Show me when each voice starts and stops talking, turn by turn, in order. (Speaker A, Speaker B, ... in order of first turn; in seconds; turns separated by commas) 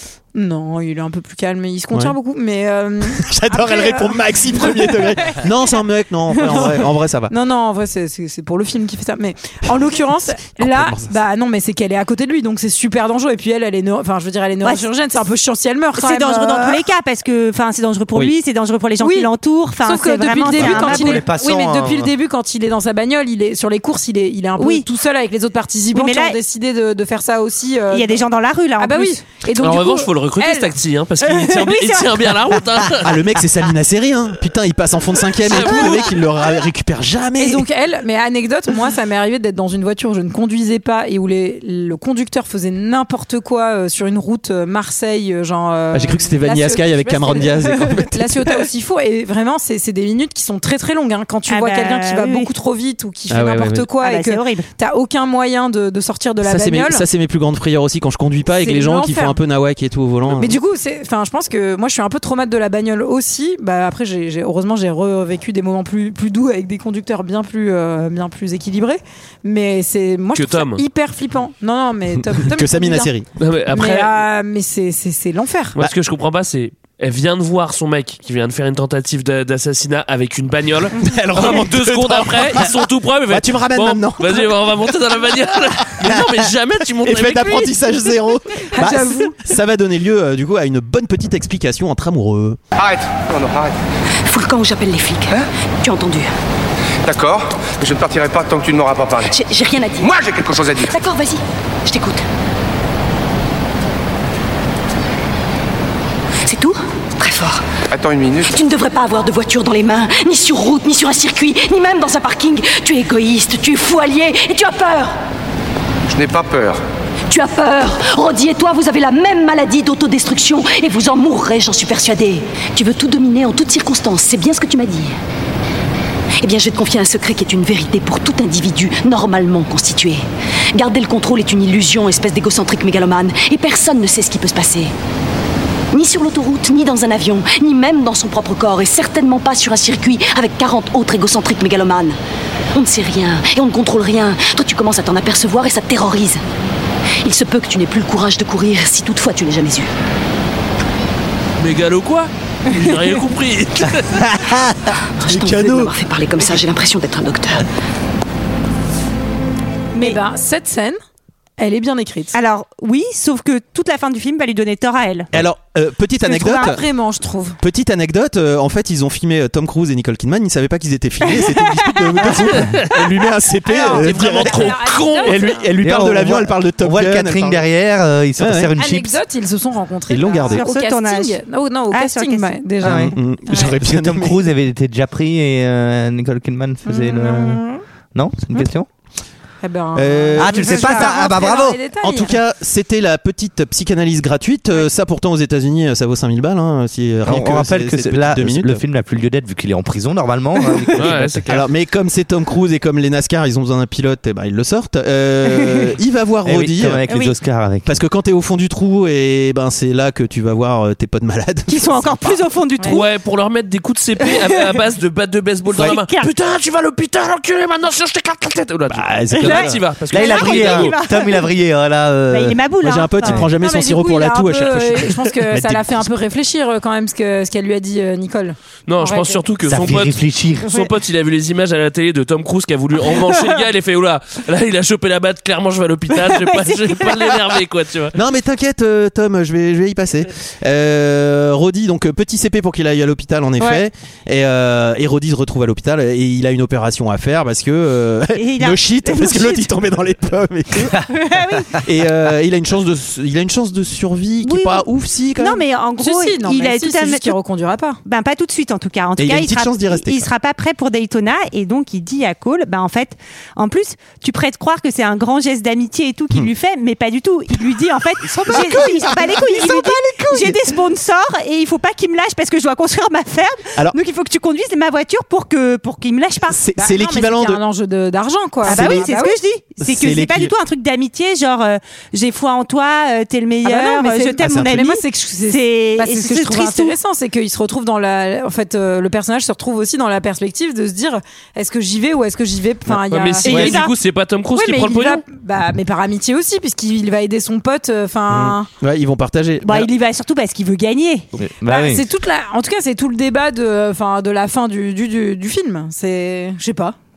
Speaker A: 0.3-5.4, Speaker B: 3.1-7.3, Speaker A: 6.3-16.8, Speaker B: 10.6-11.1, Speaker C: 15.9-21.2, Speaker A: 19.0-28.2, Speaker D: 20.5-22.1, Speaker B: 20.6-20.9, Speaker C: 24.6-24.9, Speaker C: 25.9-26.4, Speaker C: 27.9-29.2, Speaker A: 28.8-30.7, Speaker E: 29.6-33.2, Speaker A: 31.2-32.1, Speaker B: 33.0-37.6, Speaker A: 35.5-36.0, Speaker E: 35.5-36.1, Speaker A: 37.4-57.0, Speaker B: 45.9-48.6, Speaker C: 51.5-52.5, Speaker B: 53.3-53.9, Speaker C: 54.0-54.7, Speaker B: 56.4-60.5, Speaker A: 58.5-59.4, Speaker A: 60.3-73.1, Speaker E: 70.3-70.8, Speaker B: 72.4-73.3, Speaker E: 73.4-74.1, Speaker A: 73.7-75.8, Speaker E: 75.8-87.7, Speaker B: 81.0-82.7, Speaker B: 83.3-84.5, Speaker B: 85.9-86.5, Speaker B: 87.0-92.6, Speaker A: 88.7-89.4, Speaker F: 92.8-93.7, Speaker G: 94.2-96.3, Speaker F: 97.0-99.3, Speaker G: 99.3-100.1, Speaker F: 100.0-100.9, Speaker G: 100.9-102.2, Speaker G: 106.5-107.6, Speaker F: 107.9-108.5, Speaker G: 108.5-115.1, Speaker F: 116.1-116.8, Speaker G: 117.3-125.1, Speaker G: 126.4-130.2, Speaker G: 130.7-134.9, Speaker G: 135.9-142.2, Speaker G: 142.7-146.4, Speaker G: 147.2-149.9, Speaker E: 151.6-154.2, Speaker G: 155.2-157.6, Speaker B: 155.2-155.9, Speaker C: 159.9-160.2, Speaker A: 160.0-161.0, Speaker A: 161.6-162.3, Speaker C: 162.3-165.3, Speaker B: 165.3-166.8, Speaker A: 166.2-167.6, Speaker C: 166.4-166.7, Speaker B: 167.6-177.7, Speaker E: 172.6-172.9, Speaker A: 173.7-175.7, Speaker E: 173.9-175.6, Speaker D: 175.8-179.2, Speaker B: 178.4-178.7, Speaker A: 178.8-183.7, Speaker B: 180.1-180.7, Speaker C: 180.4-181.4, Speaker C: 181.9-182.6, Speaker B: 182.8-184.4, Speaker D: 182.8-187.6, Speaker C: 186.9-187.8, Speaker D: 188.1-188.9, Speaker A: 189.6-192.3, Speaker B: 189.9-191.1, Speaker D: 190.4-191.8, Speaker C: 190.6-191.1, Speaker B: 192.0-198.8, Speaker D: 197.2-201.4, Speaker E: 201.0-201.6, Speaker B: 201.0-207.0, Speaker D: 206.4-207.9, Speaker C: 207.1-207.3, Speaker B: 207.8-212.4, Speaker C: 211.7-213.0, Speaker E: 212.8-221.0, Speaker C: 215.8-216.3, Speaker B: 218.9-219.8, Speaker C: 219.3-221.5, Speaker D: 220.1-222.6, Speaker C: 222.3-223.5, Speaker B: 222.8-226.1, Speaker D: 223.2-223.5, Speaker A: 223.6-229.4, Speaker E: 228.9-238.2, Speaker D: 229.7-230.7, Speaker C: 236.4-237.1, Speaker B: 238.1-251.0, Speaker C: 243.6-243.8, Speaker C: 248.3-249.7, Speaker C: 250.9-251.8, Speaker B: 251.8-255.6, Speaker C: 254.4-254.8, Speaker C: 255.4-257.4, Speaker A: 256.0-258.0, Speaker C: 258.0-276.6, Speaker B: 259.2-260.3, Speaker B: 268.2-270.5, Speaker B: 276.5-277.6, Speaker A: 276.8-279.4, Speaker B: 278.6-279.1, Speaker C: 278.6-286.9, Speaker B: 279.8-280.5, Speaker A: 283.6-293.9, Speaker B: 284.4-284.8, Speaker E: 292.9-295.2, Speaker B: 293.5-293.8, Speaker C: 293.5-293.9, Speaker A: 294.5-298.7, Speaker B: 298.3-299.9, Speaker C: 299.6-301.2, Speaker D: 301.4-302.1, Speaker A: 301.6-306.9